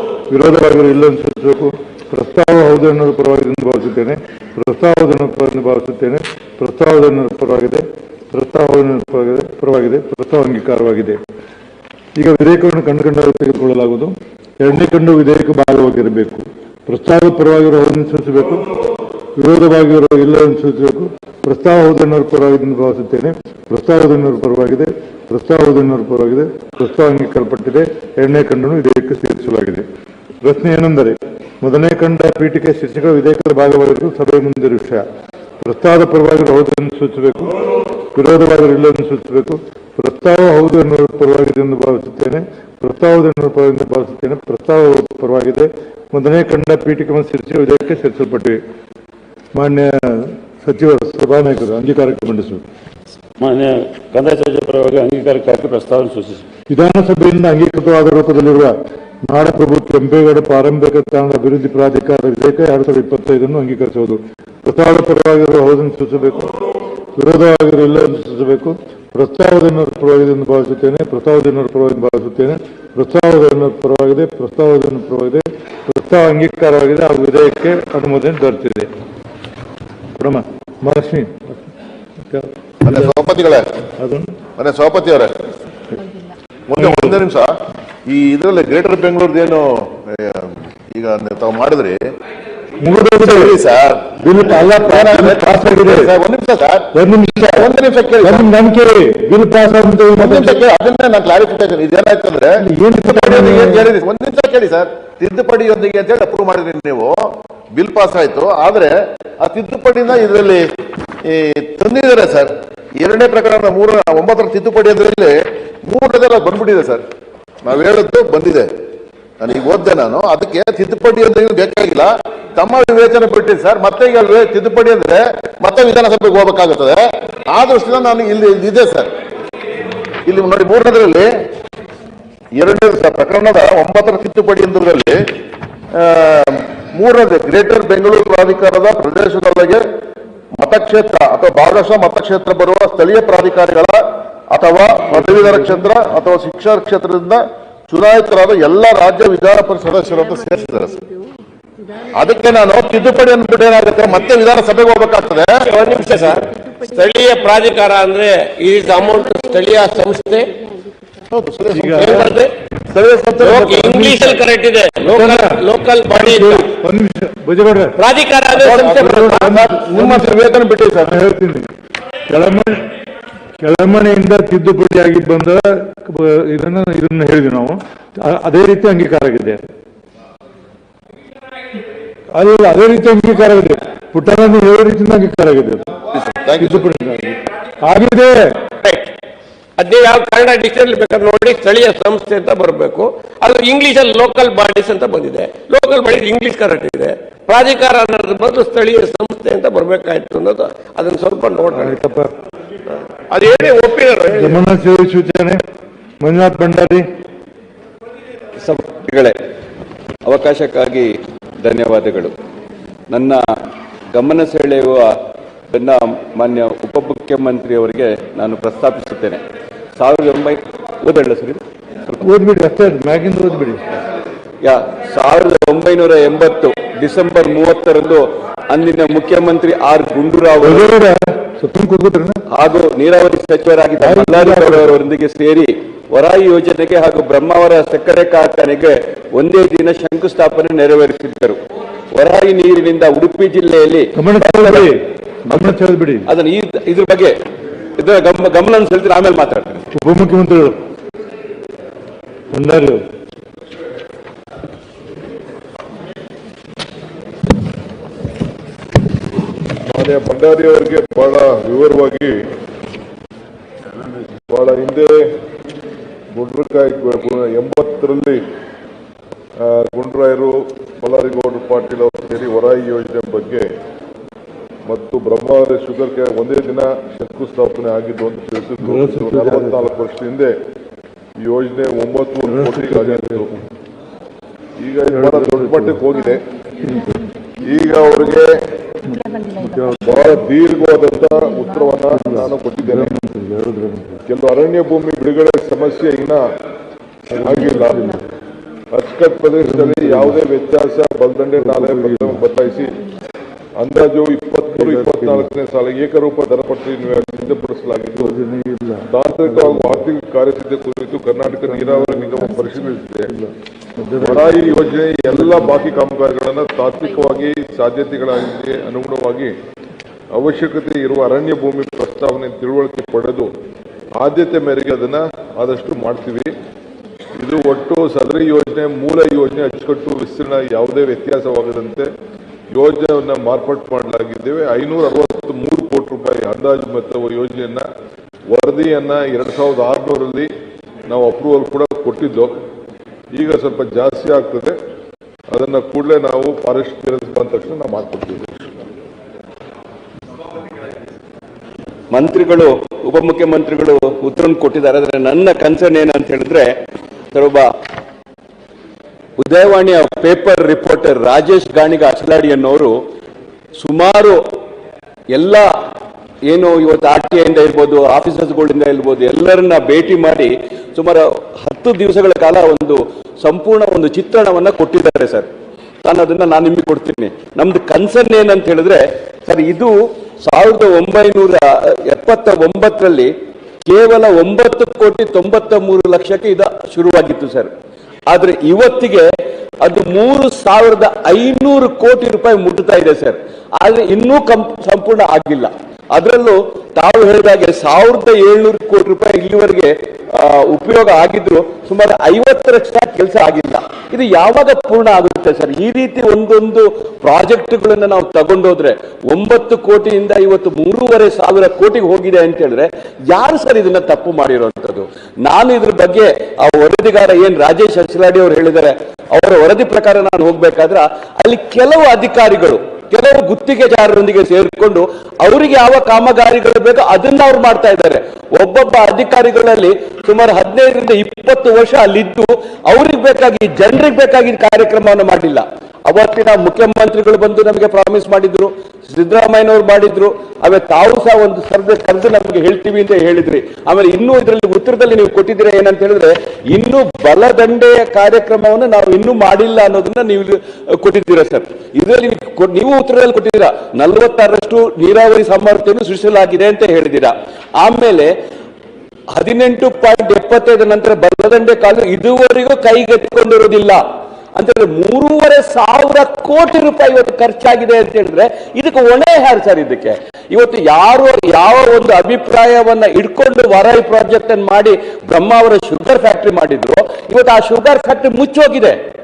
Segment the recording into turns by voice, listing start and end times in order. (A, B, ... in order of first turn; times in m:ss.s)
0:00.3-0:11.2 A
0:12.2-0:18.6 A
0:19.4-0:29.8 A
0:30.4-0:35.0 A
0:35.6-0:37.5 A
0:38.1-0:48.6 A
0:49.5-0:52.6 A
0:53.4-0:56.4 B
0:56.7-0:58.7 A
0:59.3-1:06.5 A
1:07.1-1:18.9 A
1:20.2-1:21.7 A
1:22.3-1:23.2 A
1:22.8-1:23.7 C
1:24.0-1:24.3 A
1:24.6-1:25.4 C
1:26.7-1:32.0 C
1:26.8-1:27.2 A
1:32.8-1:33.6 A
1:33.2-1:38.5 C
1:34.2-1:36.1 A
1:36.9-1:40.6 A
1:40.2-1:50.7 C
1:42.6-1:43.9 A
1:51.2-1:57.0 C
1:57.6-1:58.7 C
1:59.4-2:09.1 C
2:10.2-2:11.3 C
2:12.5-2:15.2 C
2:15.9-2:19.8 C
2:20.5-2:31.0 C
2:32.1-2:35.7 C
2:35.6-2:40.5 D
2:41.3-2:42.4 C
2:41.7-2:42.2 A
2:41.9-2:42.5 D
2:43.4-2:46.7 D
2:45.0-2:48.0 A
2:48.0-2:49.5 D
2:48.5-2:51.2 C
2:49.0-2:50.4 A
2:51.0-2:51.7 A
2:52.3-2:52.8 A
2:53.6-2:59.6 A
3:02.3-3:05.9 A
3:06.1-3:06.8 C
3:06.6-3:08.6 A
3:08.8-3:09.1 D
3:09.8-3:22.0 D
3:21.7-3:22.3 A
3:23.3-3:24.6 D
3:24.3-3:25.6 A
3:26.2-3:27.0 A
3:28.6-3:29.3 E
3:30.2-3:31.1 E
3:31.6-3:32.3 E
3:33.1-3:33.4 E
3:34.1-3:35.1 E
3:35.7-3:39.4 E
3:40.0-3:41.6 E
3:42.2-3:43.8 A
3:44.6-3:50.9 E
3:50.6-3:52.4 A
3:52.5-4:01.6 E
3:54.0-3:54.9 A
4:02.1-4:04.9 E
4:04.2-4:06.2 A
4:05.5-4:05.8 E
4:06.3-4:07.3 E
4:08.0-4:09.8 E
4:09.9-4:10.7 A
4:12.5-4:13.0 A
4:19.9-4:22.4 F
4:24.5-4:25.2 F
4:26.3-4:28.4 F
4:29.6-4:33.7 F
4:34.8-4:40.5 F
4:38.8-4:39.8 A
4:41.4-4:43.5 F
4:42.4-4:43.6 A
4:44.8-4:46.4 F
4:45.1-4:46.0 A
4:46.8-4:47.1 A
4:47.6-4:48.6 F
4:49.1-4:50.2 A
4:50.0-4:53.1 F
4:52.1-4:54.2 A
4:54.3-4:56.4 F
4:57.3-4:58.2 A
4:57.4-4:58.1 F
4:58.9-5:03.0 F
4:59.6-5:00.4 A
5:01.6-5:02.4 A
5:03.8-5:08.4 F
5:04.7-5:05.5 A
5:08.1-5:10.0 A
5:09.1-5:13.3 F
5:11.6-5:14.7 A
5:14.2-5:19.5 F
5:15.3-5:15.6 A
5:20.3-5:23.5 F
5:24.2-5:26.5 F
5:27.4-5:32.1 F
5:32.7-5:37.9 F
5:38.5-5:40.5 F
5:41.1-5:42.6 F
5:43.3-5:44.7 F
5:45.5-5:48.8 F
5:52.1-5:56.7 E
5:57.3-5:57.7 E
5:59.4-6:02.9 E
6:03.8-6:04.4 E
6:05.3-6:05.6 E
6:06.5-6:15.5 E
6:16.0-6:19.9 E
6:20.4-6:23.3 E
6:23.9-6:27.7 E
6:28.3-6:29.3 E
6:29.8-7:38.3 E
7:39.4-7:44.0 E
7:44.6-7:59.0 E